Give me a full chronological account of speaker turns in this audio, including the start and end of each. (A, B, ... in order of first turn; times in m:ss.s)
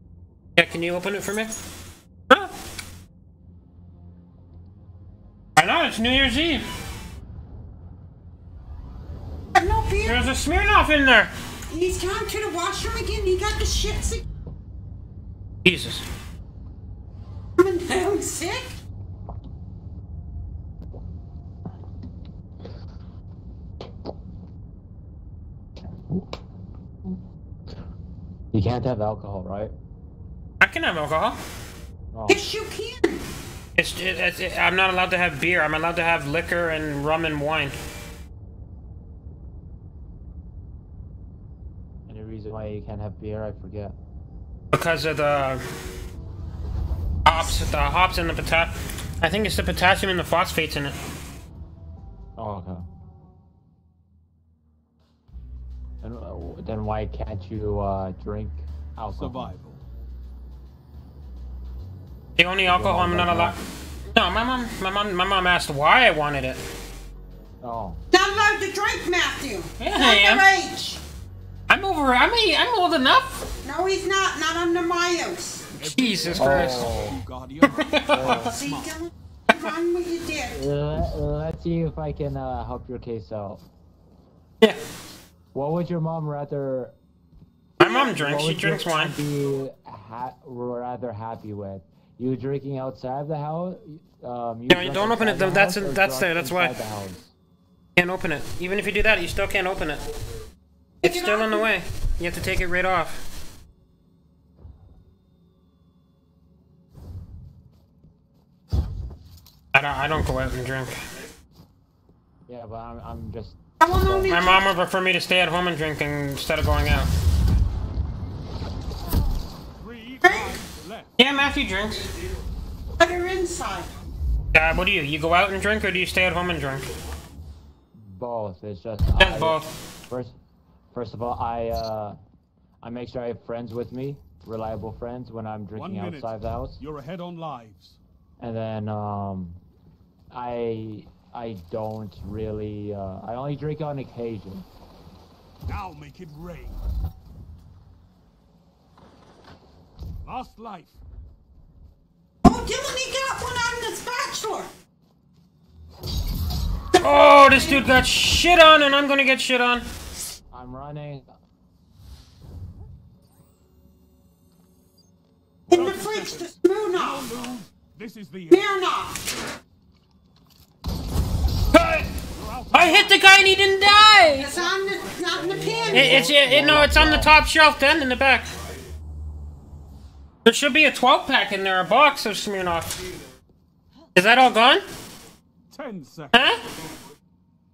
0:00.6-0:01.5 A
0:05.6-0:06.6 A
0:09.6-0:10.2 B
0:10.0-0:11.3 A
0:11.7-0:14.2 B
0:15.6-0:16.0 A
0:17.6-0:18.7 B
0:28.5-0:29.8 C
0:30.6-0:31.4 A
0:32.1-0:32.5 C
0:32.3-0:33.2 B
0:33.8-0:37.7 A
0:42.1-0:44.0 C
0:44.7-0:45.6 A
0:47.2-0:51.0 A
0:52.4-0:52.8 C
0:56.0-0:59.5 C
0:59.1-0:59.9 D
1:02.4-1:03.6 A
1:02.7-1:03.6 C
1:04.1-1:06.6 A
1:07.6-1:08.0 C
1:08.1-1:11.0 B
1:09.8-1:10.4 A
1:11.7-1:13.4 A
1:13.6-1:15.7 B
1:15.8-1:19.0 D
1:15.8-1:16.9 A
1:16.3-1:17.2 C
1:17.7-1:18.5 A
1:18.1-1:18.5 C
1:18.3-1:20.6 B
1:20.5-1:23.6 C
1:25.5-1:27.0 C
1:27.8-1:29.2 A
1:27.9-1:37.4 C
1:34.7-1:36.8 A
1:38.0-1:40.0 A
1:41.0-1:41.7 B
1:41.0-1:43.2 A
1:49.7-1:51.0 A
1:52.5-1:54.4 C
1:53.8-1:54.7 B
1:54.2-1:57.1 A
1:59.8-2:01.2 D
2:00.2-2:00.6 B
2:01.2-2:02.1 A
2:03.0-2:03.9 B
2:04.5-2:06.9 A
2:07.9-2:10.4 C
2:09.2-2:09.7 A
2:10.9-2:12.2 C
2:12.8-2:16.8 C
2:15.7-2:18.0 D
2:18.4-2:19.6 C
2:20.3-2:24.7 C
2:25.7-2:26.8 D
2:30.2-2:31.0 D
2:32.4-2:34.7 B
2:37.0-2:39.9 A
2:37.0-2:37.9 B
2:40.5-2:41.3 C
2:45.7-2:48.8 D
2:45.7-2:47.2 B
2:48.5-2:49.2 B
2:51.7-2:52.1 A
2:52.3-2:56.7 D
2:52.7-2:54.5 A
2:54.3-2:56.3 B
2:55.7-2:57.3 C
2:55.9-2:58.5 A
3:00.4-3:03.0 A
3:04.2-3:04.8 A
3:05.7-3:06.7 D
3:06.3-3:06.6 A